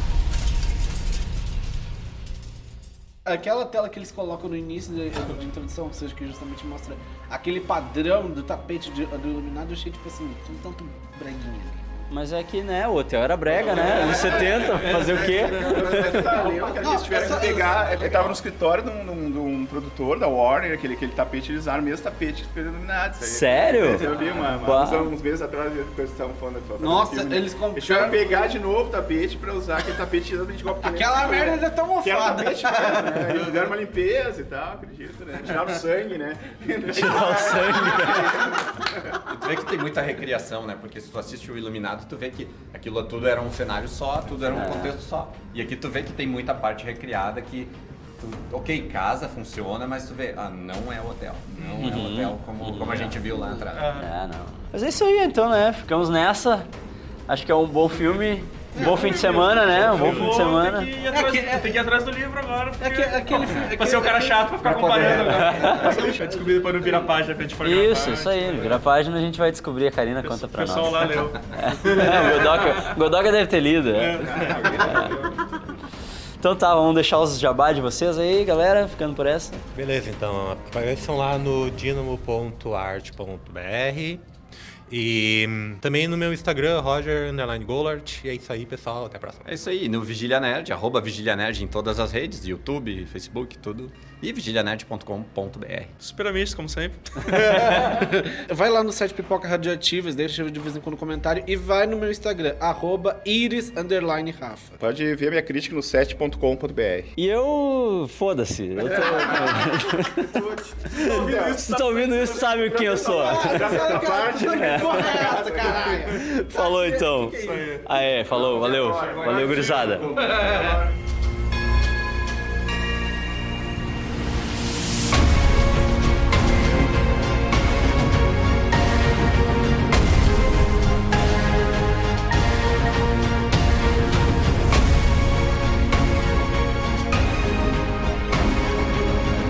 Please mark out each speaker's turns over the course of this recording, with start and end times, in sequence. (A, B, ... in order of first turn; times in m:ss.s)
0:03.2-0:11.8 A
0:12.1-0:16.4 B
0:13.5-0:39.2 C
0:14.1-0:18.3 D
0:16.1-0:17.8 A
0:17.9-0:18.2 E
0:23.2-0:25.1 B
0:24.2-0:24.6 D
0:26.8-0:28.4 A
0:30.8-0:33.5 A
0:36.9-0:38.5 B
0:39.3-0:54.0 E
0:44.4-0:45.0 B
0:51.6-0:52.0 D
0:51.8-0:53.2 B
0:53.3-0:53.6 A
0:53.7-0:54.1 D
0:54.0-0:56.7 B
0:57.3-1:00.9 B
0:58.7-0:59.4 A
0:58.8-1:08.8 D
0:59.7-1:00.3 F
1:00.0-1:00.5 A
1:01.1-1:01.7 A
1:02.8-1:06.9 A
1:04.9-1:06.1 B
1:07.6-1:15.2 B
1:10.2-1:13.0 D
1:13.9-1:14.9 D
1:14.1-1:15.4 C
1:16.4-1:19.6 B
1:19.7-1:24.2 F
1:24.9-1:29.5 F
1:29.4-1:35.9 E
1:36.0-1:37.9 D
1:37.3-1:44.7 A
1:44.8-1:47.1 C
1:47.2-1:53.8 B
1:48.8-1:51.7 C
1:50.9-1:52.8 D
1:52.6-1:56.1 C
1:53.0-1:57.7 A
1:54.5-1:55.4 B
1:56.0-2:00.1 B
1:57.3-1:57.9 D
1:58.3-2:00.9 C
1:58.9-2:00.8 E